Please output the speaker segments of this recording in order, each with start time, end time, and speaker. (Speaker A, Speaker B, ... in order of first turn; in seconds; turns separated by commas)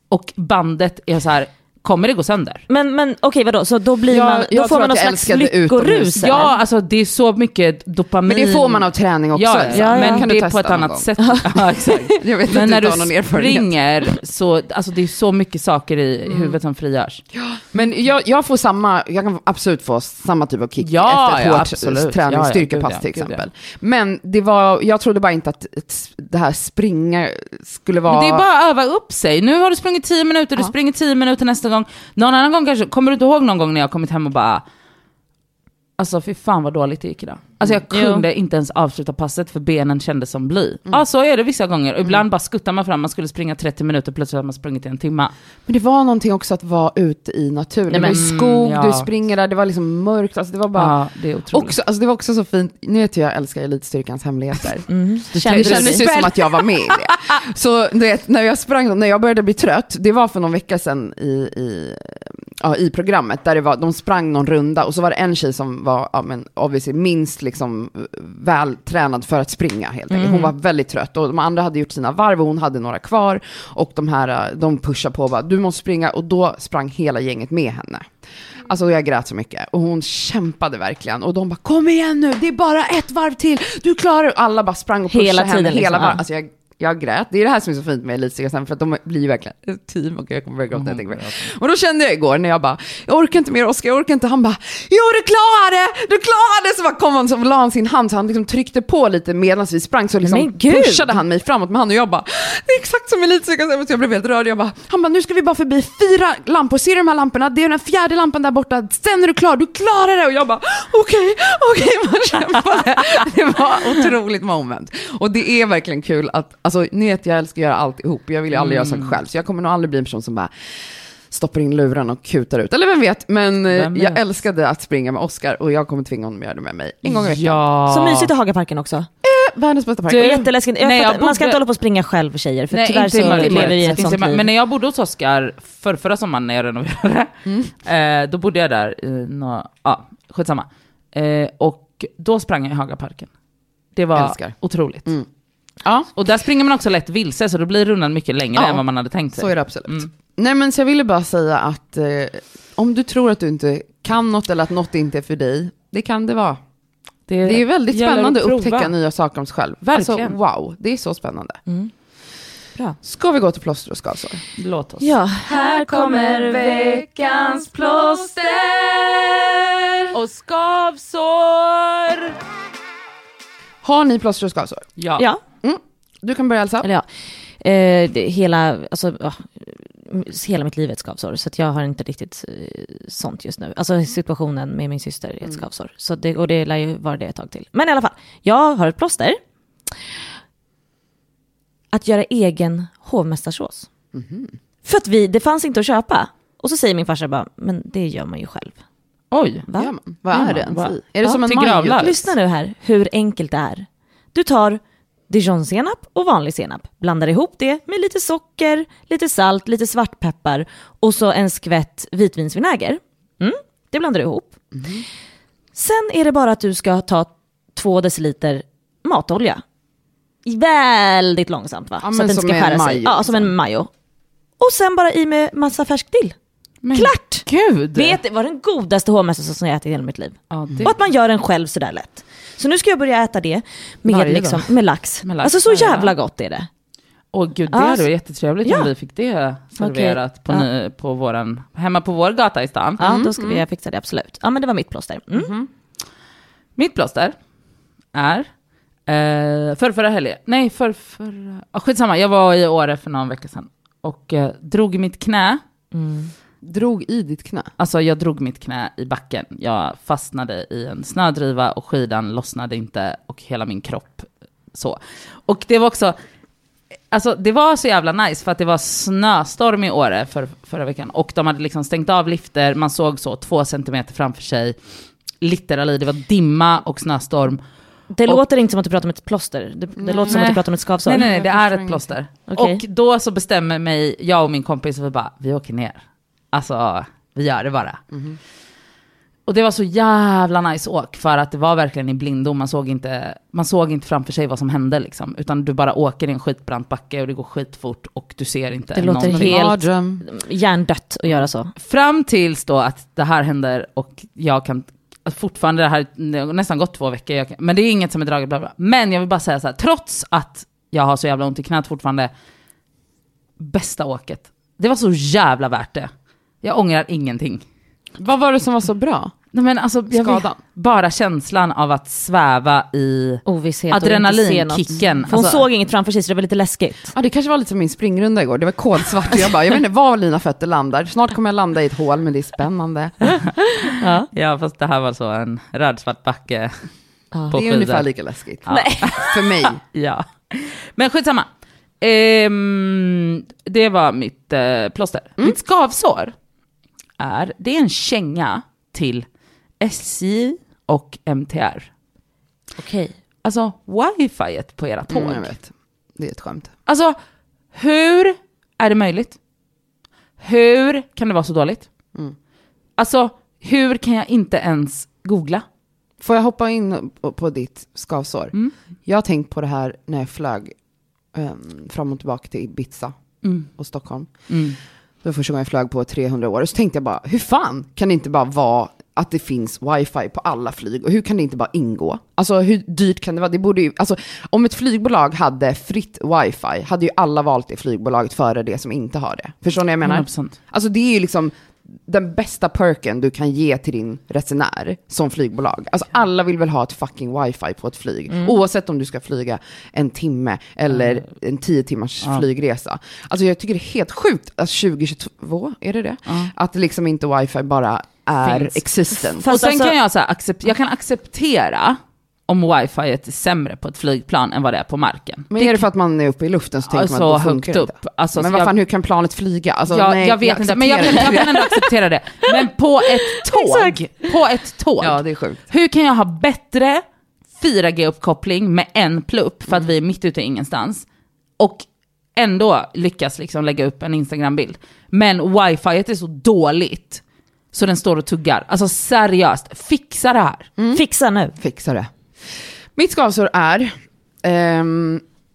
Speaker A: 0.1-2.6, Speaker B: 2.7-6.5, Speaker C: 4.1-6.5, Speaker A: 6.2-17.2, Speaker C: 8.2-13.7, Speaker B: 9.7-10.3, Speaker B: 11.2-11.4, Speaker C: 16.3-16.6, Speaker C: 17.3-28.4, Speaker A: 20.8-23.4, Speaker A: 28.1-34.6, Speaker A: 36.0-45.3, Speaker B: 37.9-38.2, Speaker C: 45.7-50.9, Speaker B: 47.9-48.2, Speaker A: 48.0-49.1, Speaker A: 50.7-51.7, Speaker C: 51.5-78.1, Speaker B: 54.9-56.1, Speaker A: 55.3-57.0, Speaker B: 70.1-70.5, Speaker C: 78.7-120.5, Speaker B: 85.1-86.2, Speaker A: 90.7-91.4, Speaker B: 100.2-101.2, Speaker A: 118.5-119.2, Speaker C: 121.3-127.6, Speaker A: 123.7-124.2, Speaker A: 127.0-128.3, Speaker B: 127.8-129.1, Speaker C: 129.2-130.4, Speaker A: 130.1-131.6, Speaker B: 130.1-134.4, Speaker A: 132.7-137.3, Speaker C: 133.1-134.2, Speaker C: 137.4-137.7, Speaker A: 137.8-143.3, Speaker A: 143.9-145.1, Speaker C: 144.2-145.3, Speaker C: 145.8-146.1, Speaker A: 146.2-150.1, Speaker C: 149.3-156.6, Speaker A: 157.3-158.9, Speaker C: 157.4-161.6, Speaker A: 159.9-160.4, Speaker C: 163.0-164.4, Speaker A: 164.6-169.3, Speaker B: 165.0-166.9, Speaker A: 170.1-172.3, Speaker C: 173.8-174.8, Speaker A: 175.0-175.2, Speaker C: 175.6-176.8, Speaker B: 177.6-189.4, Speaker B: 191.9-193.9, Speaker C: 194.1-194.6, Speaker B: 194.8-198.7, Speaker A: 199.3-199.7, Speaker B: 199.7-199.9, Speaker C: 199.8-202.2, Speaker A: 200.3-202.1, Speaker B: 201.2-214.5, Speaker C: 214.7-215.0, Speaker B: 215.8-219.6, Speaker B: 220.4-223.9, Speaker C: 222.0-223.5, Speaker B: 224.6-226.3, Speaker A: 226.8-228.2, Speaker B: 226.9-236.7, Speaker A: 230.5-230.9, Speaker A: 234.1-234.7, Speaker A: 235.2-236.1, Speaker A: 237.3-243.0, Speaker B: 237.7-238.1, Speaker B: 238.6-238.9, Speaker B: 239.8-240.7, Speaker B: 243.0-245.5, Speaker C: 243.0-243.6, Speaker C: 245.3-245.7, Speaker A: 246.8-247.3, Speaker A: 248.1-248.5, Speaker A: 249.1-255.6, Speaker B: 255.9-256.3, Speaker C: 256.6-257.7, Speaker A: 257.8-266.2, Speaker A: 267.1-274.7, Speaker A: 275.4-277.6, Speaker B: 278.1-281.3, Speaker C: 280.0-280.6, Speaker A: 280.3-286.0, Speaker C: 281.1-282.1, Speaker B: 282.5-282.8, Speaker A: 286.5-288.0, Speaker C: 288.1-288.4, Speaker A: 289.5-299.6, Speaker B: 298.9-301.7, Speaker C: 299.2-300.2, Speaker A: 301.8-312.3, Speaker A: 313.6-316.1, Speaker A: 316.6-317.6, Speaker C: 318.2-319.3, Speaker A: 319.5-325.6, Speaker C: 320.1-320.6, Speaker B: 323.4-327.1, Speaker C: 327.1-333.3, Speaker B: 333.9-334.3, Speaker A: 334.3-336.7, Speaker B: 337.3-337.6, Speaker A: 337.5-338.1, Speaker C: 337.5-339.8, Speaker A: 338.6-341.5, Speaker B: 338.7-339.3, Speaker A: 342.0-346.3, Speaker A: 347.2-349.2, Speaker A: 349.8-351.9, Speaker B: 352.8-353.1, Speaker A: 353.4-355.5, Speaker C: 355.1-356.7, Speaker A: 356.9-357.1, Speaker A: 357.7-359.4, Speaker A: 360.4-361.9, Speaker A: 363.0-365.6, Speaker C: 366.2-368.5, Speaker C: 369.1-370.7, Speaker C: 371.3-373.1, Speaker A: 373.4-373.7, Speaker C: 373.7-374.3, Speaker A: 374.5-374.8, Speaker C: 375.2-391.5, Speaker A: 390.0-390.6, Speaker C: 392.1-409.4, Speaker A: 408.4-408.8, Speaker B: 409.4-409.9, Speaker A: 409.4-415.8, Speaker C: 415.5-421.8, Speaker A: 416.9-418.7, Speaker A: 419.9-427.0, Speaker B: 423.5-423.9, Speaker C: 425.0-425.6, Speaker A: 427.6-431.0, Speaker A: 431.6-431.8, Speaker A: 432.4-437.2, Speaker A: 437.7-440.7, Speaker B: 440.9-441.5, Speaker C: 441.6-442.1, Speaker C: 442.9-443.9, Speaker C: 444.4-445.2